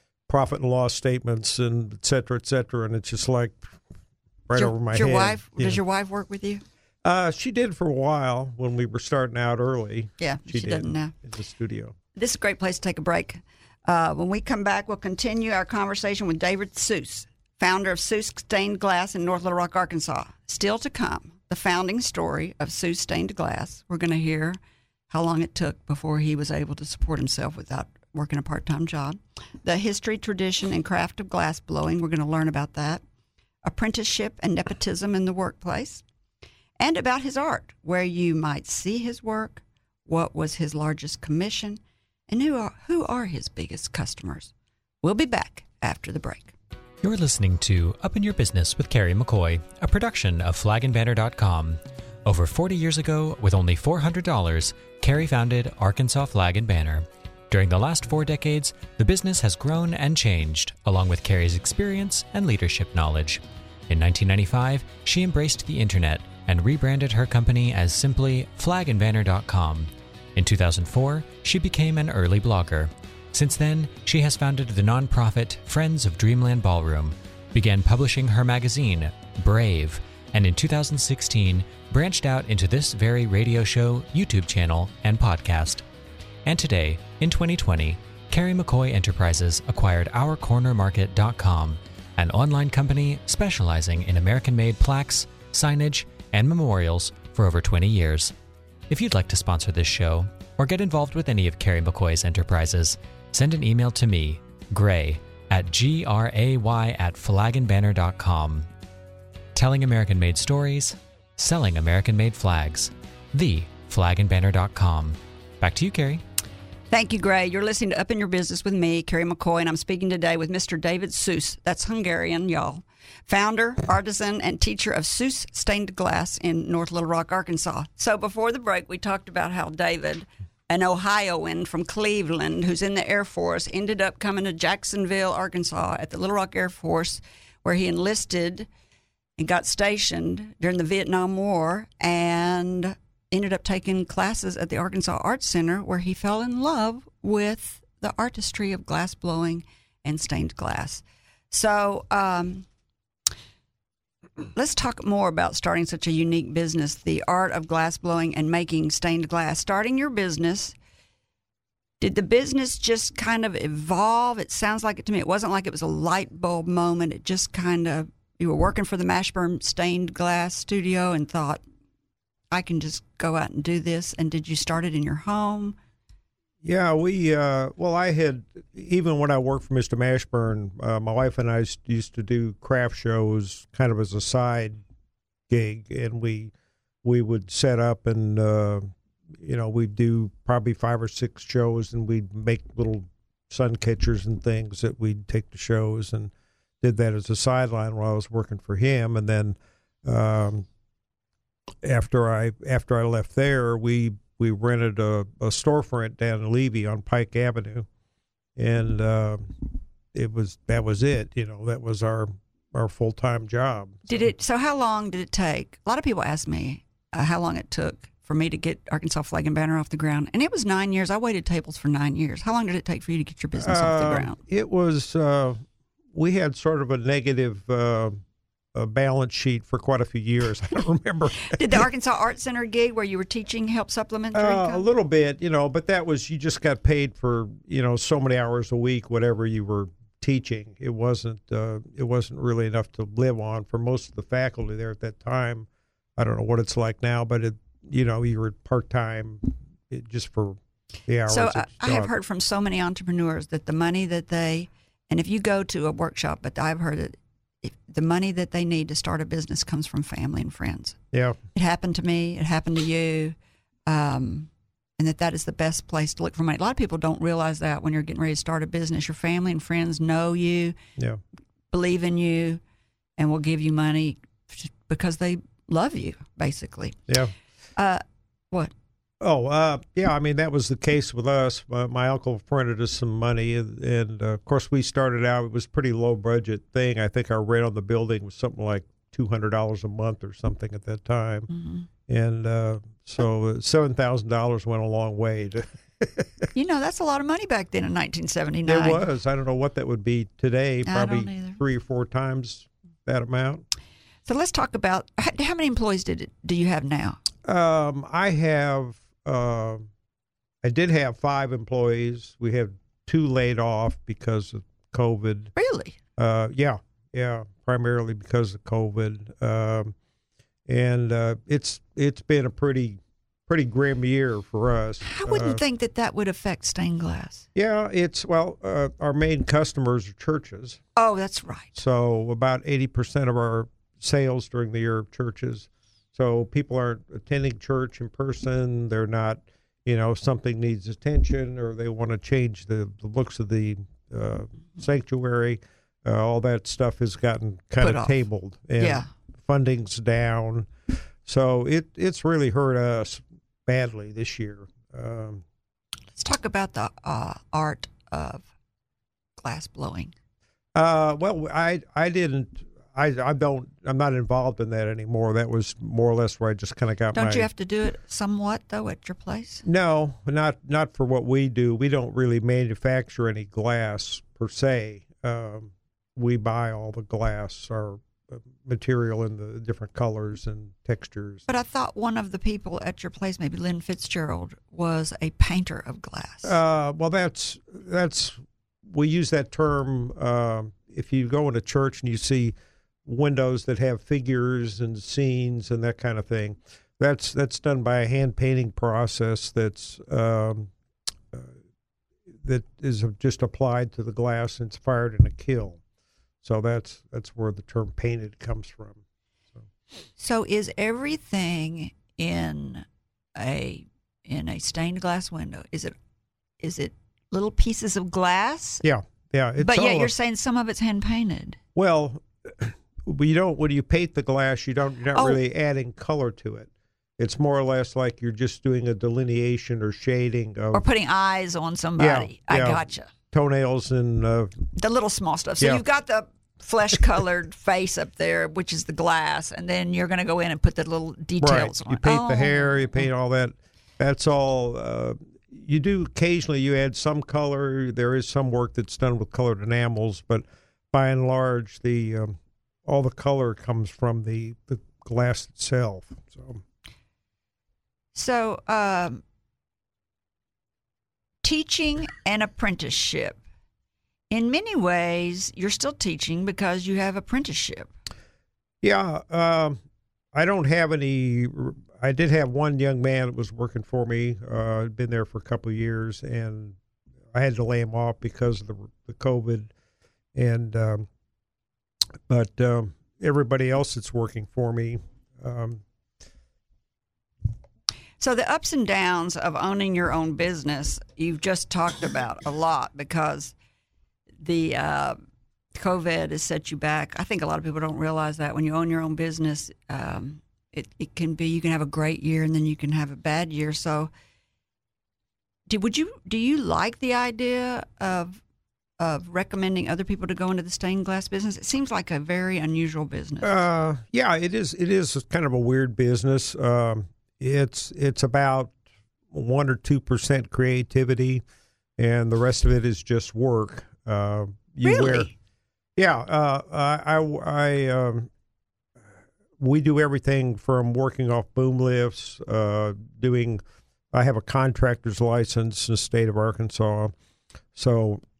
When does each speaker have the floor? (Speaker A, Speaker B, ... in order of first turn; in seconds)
Speaker A: 0.3-3.8, 4.5-5.8, 7.0-11.9, 176.6-184.8, 185.5-186.5, 187.0-200.7, 201.8-207.9, 208.6-214.3, 223.6-225.6, 226.1-228.2, 228.7-231.8, 234.3-252.1, 261.1-261.4, 279.2-291.5, 292.1-296.4, 298.6-303.6, 307.4-309.9, 310.6-315.5, 316.2-319.9, 320.7-325.6, 327.5-330.8, 331.8-350.7, 351.2-355.4, 360.7-367.5, 369.6-381.4, 386.4-400.7, 402.4-405.8, 406.4-409.0, 418.8-420.1, 421.7-430.8, 432.0-434.7, 441.4-456.6, 468.8-469.8, 470.3-476.8, 477.3-479.7, 480.3-481.1, 482.3-485.8, 513.4-518.7, 519.3-521.4, 522.0-525.3, 526.0-528.3, 529.6-533.6, 534.1-537.1, 537.7-538.2
Speaker B: 4.5-6.6, 10.2-11.1, 12.1-24.6, 25.1-33.0, 33.6-36.0, 36.8-44.5, 45.0-46.5, 116.9-138.7, 139.4-152.7, 154.5-160.8, 162.0-171.6, 172.5-175.8, 214.1-224.4, 231.4-234.8, 251.3-261.0, 261.5-263.3, 263.9-270.8, 271.7-272.6, 273.2-277.1, 277.8-278.7, 291.5-291.9, 296.5-299.0, 300.9-301.6, 304.2-307.2, 315.6-315.9, 325.0-327.4, 330.9-331.8, 347.8-348.2, 348.8-349.1, 356.1-358.5, 359.4-360.1, 367.1-369.6, 381.5-386.6, 410.2-415.9, 416.6-418.8, 419.6-421.6, 425.1-425.4, 430.7-433.1, 434.8-443.1, 458.1-459.2, 461.4-463.4, 464.3-467.9, 488.2-493.5, 494.4-495.2, 495.7-504.1, 505.7-508.4, 509.0-513.6, 524.8-525.3
Speaker C: 47.0-85.8, 86.5-98.3, 98.9-108.7, 109.5-116.2